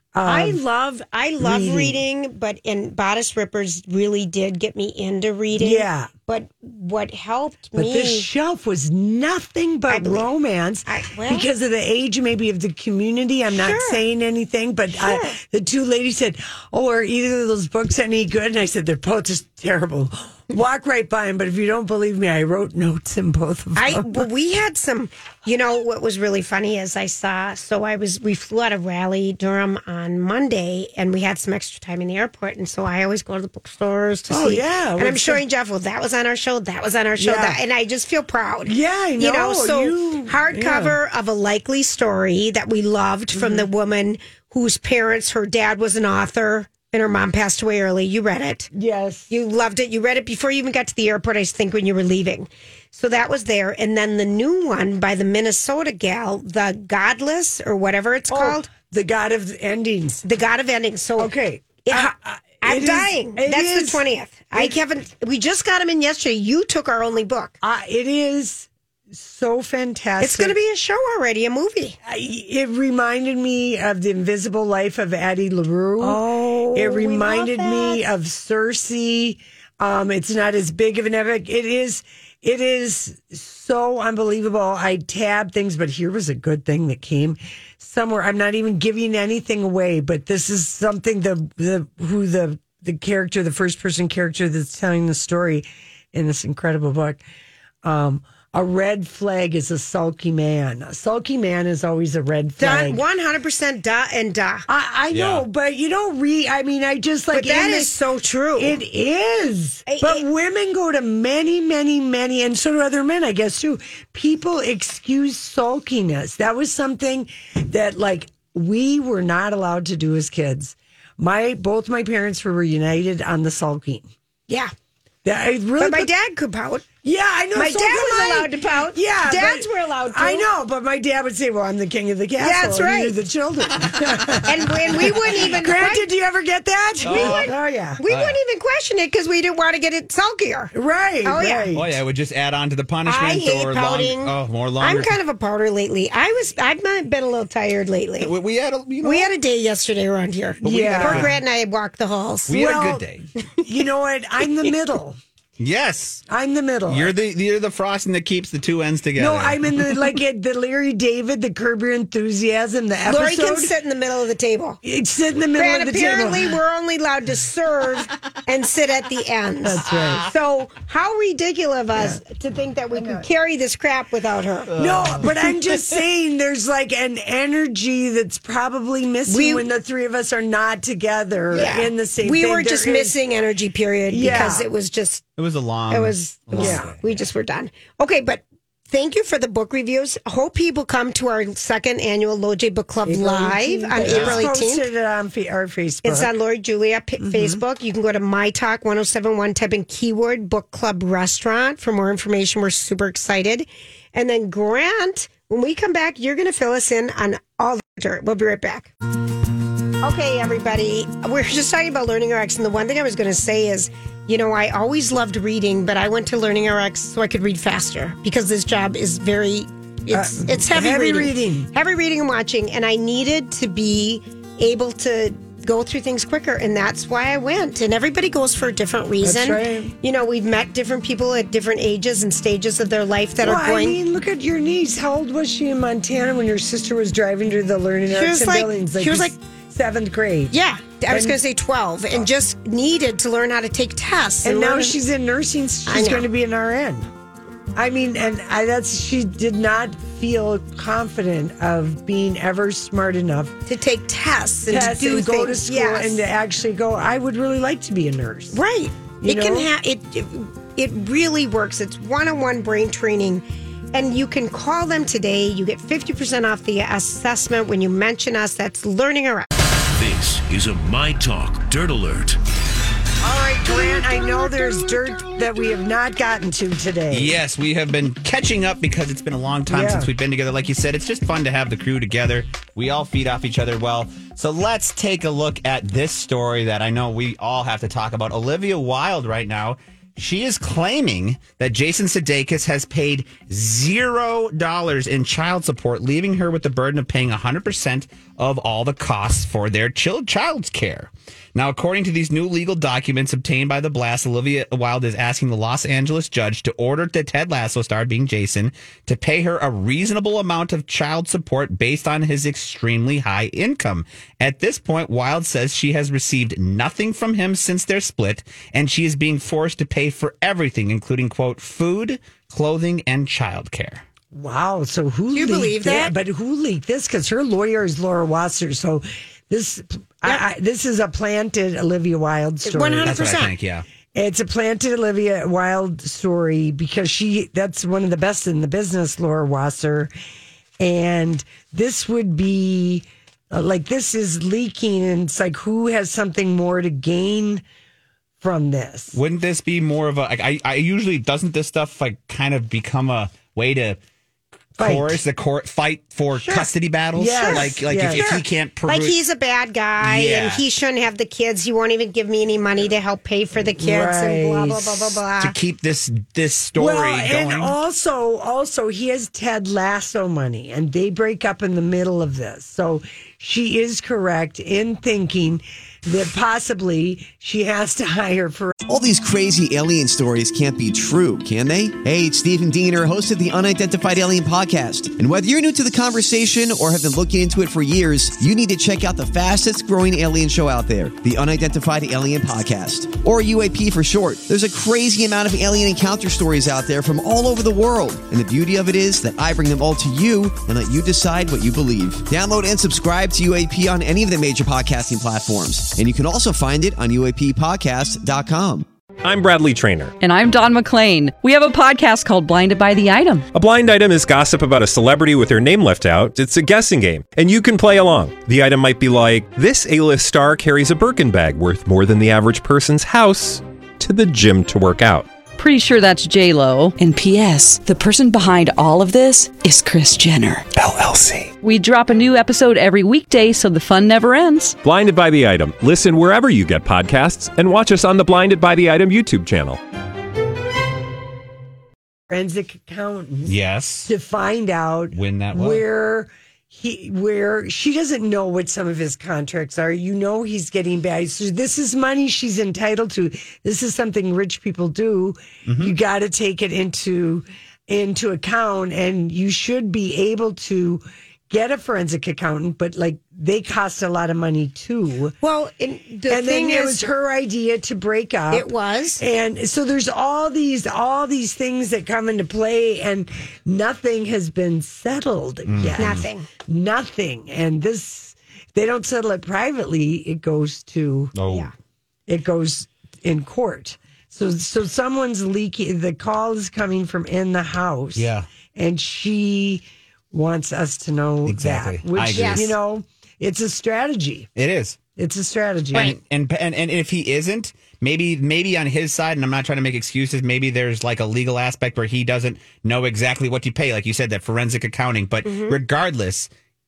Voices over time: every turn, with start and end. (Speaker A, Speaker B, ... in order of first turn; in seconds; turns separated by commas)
Speaker A: 0.1-0.6, Speaker B: 0.2-8.3, Speaker A: 1.4-2.0, Speaker A: 5.5-6.1, Speaker A: 7.8-24.3, Speaker B: 9.9-10.3, Speaker B: 10.9-11.5, Speaker B: 13.5-14.0, Speaker B: 14.9-15.4, Speaker B: 23.8-48.7, Speaker A: 34.3-35.4, Speaker A: 37.2-37.6, Speaker A: 38.7-41.0, Speaker A: 43.3-43.7, Speaker A: 48.7-49.3, Speaker B: 49.3-58.7, Speaker A: 58.3-60.2, Speaker B: 60.2-61.3, Speaker A: 61.2-64.8, Speaker B: 61.9-67.5, Speaker A: 67.6-70.6, Speaker B: 70.2-72.0, Speaker A: 72.0-97.2, Speaker B: 76.0-78.0, Speaker A: 97.8-103.0, Speaker B: 102.6-104.7, Speaker A: 104.7-108.0, Speaker C: 105.1-105.5, Speaker B: 107.3-108.8, Speaker A: 108.6-124.1, Speaker B: 109.9-110.2, Speaker A: 125.2-126.1, Speaker B: 125.8-126.8, Speaker A: 127.0-138.0, Speaker B: 127.6-130.5, Speaker B: 132.4-133.2, Speaker B: 134.4-136.1, Speaker C: 137.1-137.5, Speaker B: 137.1-140.7, Speaker C: 138.1-138.4, Speaker A: 140.7-142.0, Speaker B: 141.2-141.7, Speaker C: 141.7-145.2, Speaker B: 143.1-148.3, Speaker C: 148.2-149.3, Speaker B: 149.0-152.6, Speaker A: 150.6-151.3, Speaker C: 150.6-151.3, Speaker C: 152.5-153.2, Speaker A: 152.5-153.0, Speaker A: 153.6-155.2, Speaker C: 155.6-156.2, Speaker A: 156.3-157.1, Speaker C: 156.9-159.8, Speaker A: 159.2-163.7, Speaker B: 163.1-164.8, Speaker A: 164.8-166.6, Speaker B: 165.6-174.8, Speaker A: 169.6-170.3, Speaker A: 171.9-172.2, Speaker A: 172.9-173.3, Speaker C: 174.7-175.4, Speaker A: 174.8-183.2, Speaker B: 179.3-179.7, Speaker B: 181.5-185.2, Speaker A: 184.1-184.7, Speaker C: 185.4-187.2, Speaker B: 185.9-194.9, Speaker A: 186.6-186.9, Speaker A: 193.1-196.3, Speaker C: 194.0-194.5, Speaker B: 196.0-208.9, Speaker A: 197.2-197.6, Speaker B: 210.0-234.0, Speaker A: 220.1-221.7, Speaker A: 229.2-229.9, Speaker A: 233.4-240.5, Speaker B: 238.1-239.3, Speaker B: 240.5-245.0, Speaker A: 241.1-241.4, Speaker A: 244.4-247.1, Speaker B: 245.9-246.3, Speaker A: 247.8-253.6, Speaker B: 253.7-256.2, Speaker A: 254.7-258.6, Speaker B: 258.5-269.5, Speaker A: 259.2-259.7, Speaker D: 269.9-272.4, Speaker A: 273.2-277.4, Speaker C: 277.1-324.0, Speaker A: 279.7-280.1, Speaker A: 324.3-333.2, Speaker B: 325.3-326.1, Speaker B: 332.6-333.5, Speaker C: 333.0-333.9, Speaker A: 334.1-340.1, Speaker A: 340.8-347.6, Speaker A: 348.4-349.2, Speaker C: 349.1-354.0, Speaker A: 354.8-355.2, Speaker C: 354.8-359.2, Speaker B: 356.4-356.7, Speaker A: 357.1-358.4, Speaker B: 357.4-365.5, Speaker C: 360.0-360.6, Speaker A: 363.8-365.2, Speaker C: 365.4-367.8, Speaker A: 366.8-378.8, Speaker E: 378.9-408.9, Speaker F: 409.2-410.2, Speaker G: 410.2-413.5, Speaker F: 413.5-425.3, Speaker G: 425.6-430.7, Speaker F: 430.8-431.5, Speaker G: 431.6-434.8, Speaker F: 434.8-439.8, Speaker A: 442.3-465.4, Speaker C: 443.4-444.1, Speaker C: 445.1-445.8, Speaker C: 455.7-455.9, Speaker B: 465.4-467.0, Speaker A: 466.3-481.3, Speaker B: 468.5-469.2, Speaker C: 475.7-476.2, Speaker B: 476.0-476.5, Speaker C: 481.4-481.7, Speaker A: 482.3-494.5, Speaker C: 488.1-488.5, Speaker C: 491.5-492.7, Speaker B: 492.4-492.7, Speaker C: 494.6-495.0, Speaker A: 495.2-496.1, Speaker C: 495.9-506.5, Speaker B: 505.4-505.8